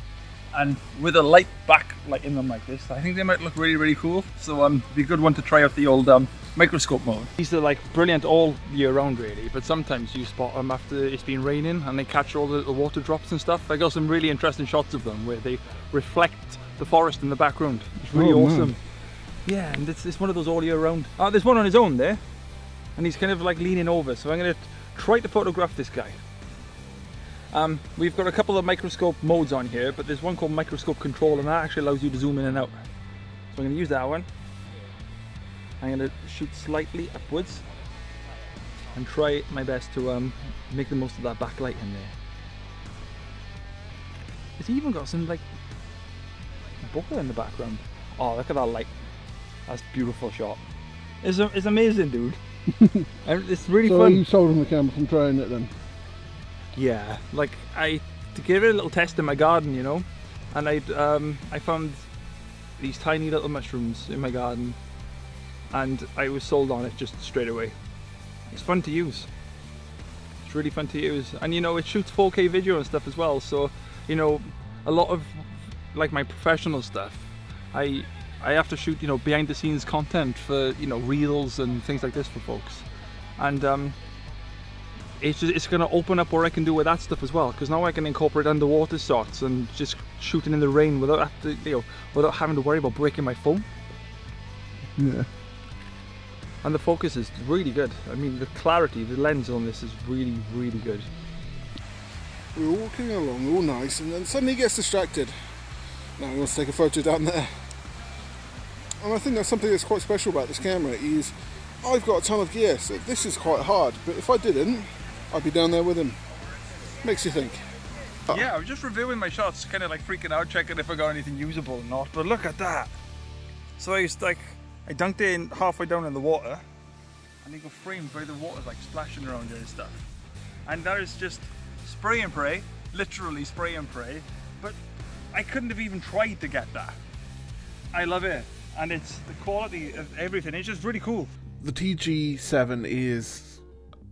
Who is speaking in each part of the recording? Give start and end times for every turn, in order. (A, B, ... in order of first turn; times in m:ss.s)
0:00.5-0:18.8 A
0:18.1-0:18.7 B
0:19.4-0:22.2 A
0:23.0-0:26.2 A
0:27.5-0:32.8 A
0:33.5-0:34.3 A
0:35.8-0:37.6 A
0:38.9-0:42.1 A
0:44.6-0:45.4 A
0:46.8-0:48.9 A
0:49.7-0:50.6 A
0:51.2-0:52.4 A
0:52.8-0:53.0 B
0:53.2-0:54.2 A
0:53.8-0:55.7 B
0:56.7-1:02.0 A
1:02.8-1:04.8 A
1:05.7-1:07.7 A
1:08.5-1:09.3 A
1:10.4-1:22.8 A
1:23.4-1:24.0 A
1:25.2-1:33.6 A
1:35.0-1:35.2 B
1:36.6-1:41.1 A
1:42.5-1:45.4 B
1:46.2-1:47.5 B
1:49.0-1:56.2 B
1:57.0-1:57.6 B
1:58.3-2:02.9 A
2:03.8-2:06.6 A
2:07.4-2:10.1 A
2:10.6-2:14.8 A
2:15.3-2:17.0 A
2:17.9-2:21.3 A
2:21.6-2:23.6 B